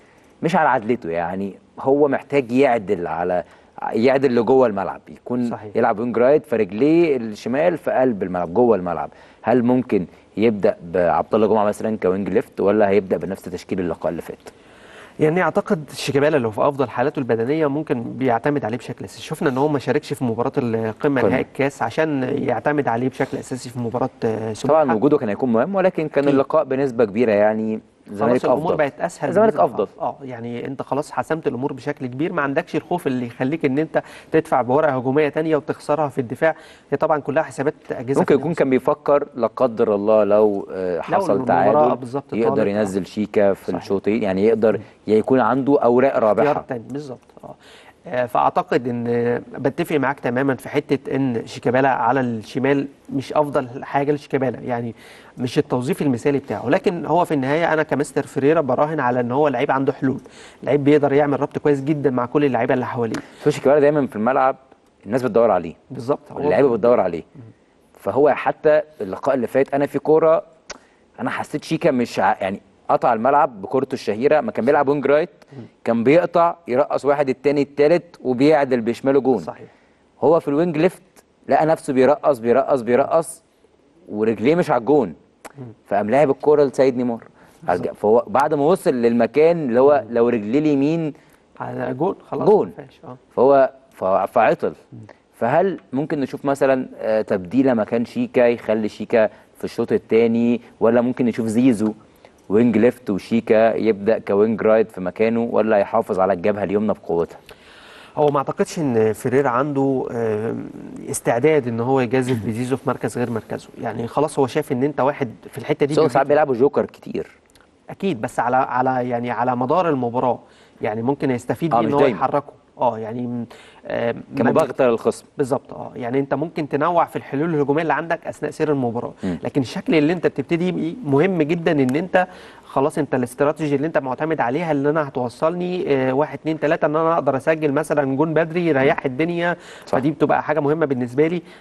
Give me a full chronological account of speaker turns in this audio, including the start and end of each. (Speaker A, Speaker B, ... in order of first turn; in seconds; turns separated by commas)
Speaker A: 0.4-14.5, Speaker B: 5.5-5.8, Speaker B: 15.2-25.0, Speaker A: 24.7-29.9, Speaker B: 28.2-38.6, Speaker A: 38.2-46.6, Speaker B: 41.1-42.9, Speaker B: 43.7-43.9, Speaker B: 46.4-47.6, Speaker B: 48.1-63.2, Speaker A: 63.4-65.8, Speaker B: 65.9-66.9, Speaker A: 66.4-67.2, Speaker A: 68.0-70.5, Speaker A: 71.2-79.5, Speaker B: 79.4-79.7, Speaker A: 80.2-83.4, Speaker A: 84.1-85.2, Speaker A: 85.9-91.1, Speaker B: 91.6-93.2, Speaker A: 92.4-92.7, Speaker A: 93.3-94.8, Speaker A: 95.4-102.0, Speaker A: 102.5-107.4, Speaker B: 108.2-116.3, Speaker A: 115.9-117.3, Speaker B: 117.9-124.7, Speaker A: 121.7-122.2, Speaker A: 124.4-125.3, Speaker B: 125.4-141.4